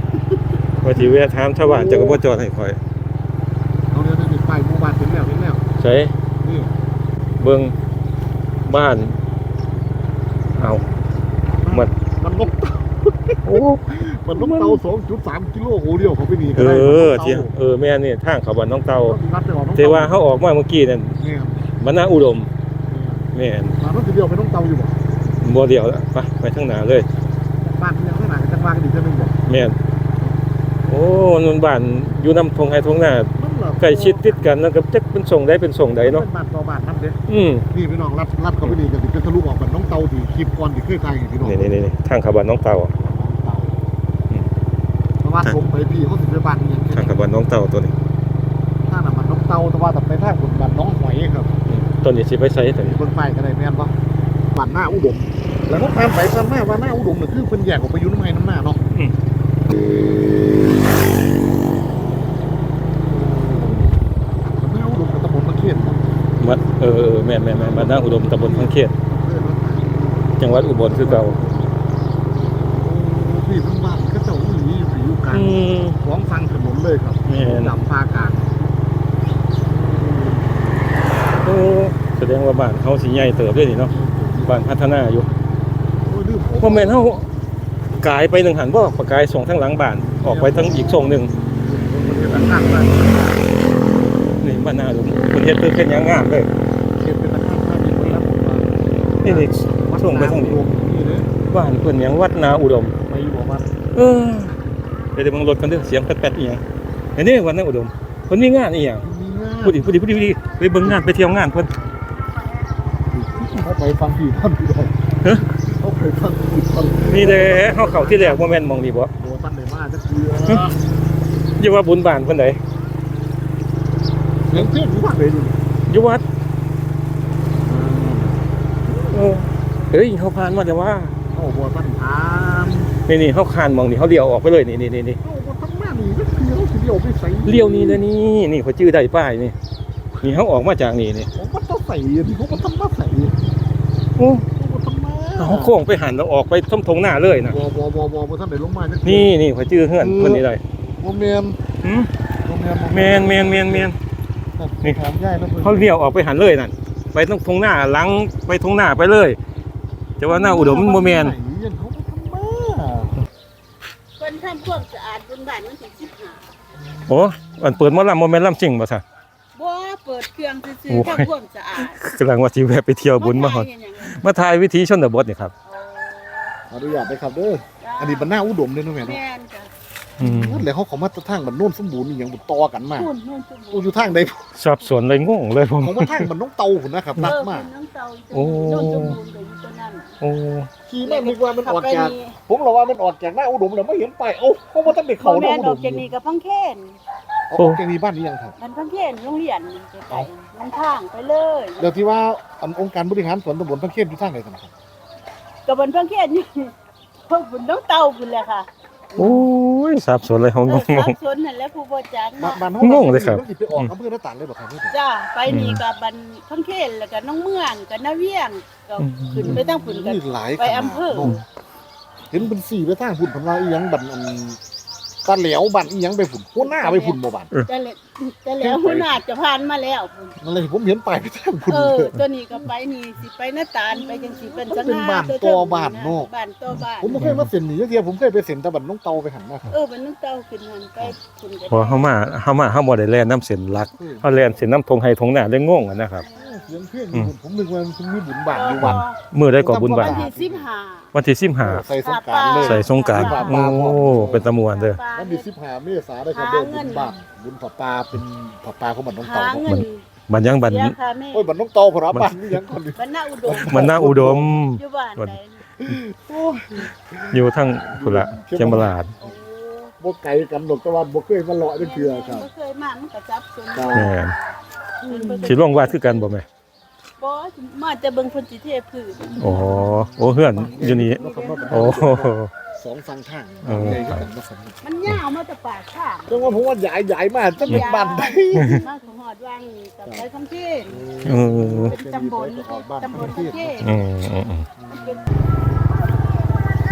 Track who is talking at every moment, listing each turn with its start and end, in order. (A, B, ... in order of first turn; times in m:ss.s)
0:00.3-0:02.2 A
0:00.8-0:02.8 B
0:03.9-0:05.6 A
0:05.8-0:06.1 B
0:06.4-0:06.7 A
0:07.4-0:07.8 B
0:08.6-0:09.2 B
0:10.6-0:10.8 B
0:11.6-0:17.5 A
0:13.4-0:14.8 B
0:16.6-0:19.2 B
0:19.0-0:20.2 A
0:19.8-0:21.2 B
0:21.2-0:21.7 A
0:21.8-0:22.5 B
0:22.9-0:25.0 A
0:23.3-0:23.8 B
0:25.4-0:27.1 B
0:27.6-0:29.4 A
0:29.5-0:29.8 B
0:30.9-0:36.3 B
0:33.4-0:34.5 A
0:36.0-0:37.2 A
0:37.3-0:37.7 B
0:37.7-0:41.9 A
0:41.4-0:42.9 B
0:43.0-0:43.8 A
0:45.2-0:47.2 A
0:46.9-0:47.9 B
0:48.9-0:51.5 A
0:51.7-0:53.0 B
0:52.8-0:53.9 A
0:54.5-0:58.8 A
1:03.1-1:04.0 A
1:04.6-1:06.0 A
1:06.4-1:08.9 B
1:07.5-1:10.2 A
1:10.4-1:11.4 B
1:10.9-1:11.7 A
1:12.7-1:18.5 A
1:15.3-1:16.0 B
1:17.3-1:17.7 B
1:19.7-1:20.5 A
1:21.4-1:23.9 B
1:23.9-1:24.7 A
1:24.4-1:25.3 B
1:26.0-1:27.0 A
1:26.6-1:27.3 B
1:28.0-1:31.3 B
1:30.2-1:33.8 A
1:34.4-1:36.5 B
1:37.0-1:41.3 A
1:39.2-1:40.6 B
1:41.5-1:43.0 B
1:43.0-1:43.7 A
1:43.9-1:44.6 B
1:45.1-1:46.6 B
1:47.2-1:49.0 B
1:49.0-1:50.0 A
1:49.6-1:51.7 B
1:53.1-2:00.8 A
1:57.0-1:59.1 B
2:01.6-2:02.6 B
2:04.5-2:05.6 A
2:05.9-2:06.2 B
2:07.6-2:09.2 A
2:09.1-2:11.2 B
2:11.3-2:12.9 A
2:13.1-2:15.2 B
2:15.2-2:18.0 A
2:17.4-2:19.6 B
2:20.2-2:21.3 B
2:21.3-2:23.4 A
2:24.2-2:24.5 B
2:24.5-2:25.8 A
2:25.4-2:27.6 B
2:27.4-2:29.3 A
2:29.0-2:30.6 B
2:30.0-2:30.5 A
2:31.0-2:31.6 A
2:31.8-2:32.1 B
2:32.4-2:33.9 A
2:32.9-2:34.0 B
2:34.6-2:35.9 A
2:35.6-2:39.4 B
2:40.2-2:41.4 B
2:40.2-2:43.2 A
2:44.2-2:46.5 C
2:46.8-2:47.8 A
2:47.1-2:49.0 B
2:49.6-2:52.0 C
2:50.9-2:55.5 B
2:53.2-2:54.2 C
2:55.6-2:56.5 C
2:56.7-2:59.2 A
2:57.8-2:58.4 C
2:59.0-2:59.7 C
3:00.2-3:00.7 B
3:00.2-3:03.1 A
3:03.0-3:04.3 C
3:03.7-3:04.5 A
3:04.6-3:06.3 B
3:05.8-3:07.7 A
3:07.2-3:10.1 C
3:08.3-3:09.2 B
3:10.2-3:10.7 B
3:10.9-3:16.1 A
3:11.0-3:12.4 C
3:14.9-3:17.0 C
3:17.5-3:18.6 A
3:18.6-3:21.9 C
3:21.8-3:24.7 A
3:25.7-3:26.7 C
3:27.3-3:29.4 C
3:29.2-3:31.2 B
3:30.7-3:32.6 C
3:32.4-3:35.0 A
3:32.8-3:33.9 B
3:34.9-3:41.4 C
3:35.5-3:35.8 B
3:39.0-3:39.6 B
3:39.4-3:41.4 A
3:42.3-3:44.6 A
3:45.2-3:47.5 A
3:46.6-3:50.3 C
3:48.6-3:49.2 A
3:50.4-3:52.2 A
3:51.7-3:57.2 C
3:53.9-3:56.3 A
3:56.7-3:57.5 B
3:57.0-3:59.7 A
3:59.7-4:02.2 C
4:01.7-4:06.2 B
4:03.9-4:04.6 A
4:06.2-4:06.8 C
4:06.4-4:09.0 A
4:08.5-4:09.2 C
4:08.8-4:10.3 B
4:09.6-4:10.7 A
4:09.9-4:11.1 C
4:11.1-4:11.9 B
4:11.6-4:14.5 A
4:12.0-4:15.5 C
4:12.5-4:15.0 B
4:15.1-4:19.8 A
4:16.3-4:17.2 C
4:19.2-4:20.0 C
4:19.7-4:21.0 B
4:20.6-4:21.5 C
4:21.3-4:24.6 A
4:22.1-4:22.6 B
4:23.0-4:25.6 C
4:23.5-4:25.4 B
4:25.8-4:29.4 A
4:27.3-4:29.2 B
4:29.2-4:29.9 C
4:30.0-4:32.5 A
4:31.8-4:34.4 C
4:33.7-4:34.1 A
4:33.9-4:34.3 B
4:35.0-4:36.3 C
4:35.1-4:35.5 A
4:35.4-4:36.5 B
4:37.2-4:39.7 C
4:39.3-4:45.1 A
4:39.4-4:42.5 B
4:40.8-4:42.0 C
4:43.6-4:44.3 B
4:44.8-4:46.7 C
4:46.3-4:48.8 A
4:47.6-4:51.0 C
4:50.9-4:53.8 A
4:51.2-4:52.0 B
4:51.8-4:53.9 C
4:53.8-4:54.7 B
4:54.8-4:55.2 A
4:54.9-4:55.2 C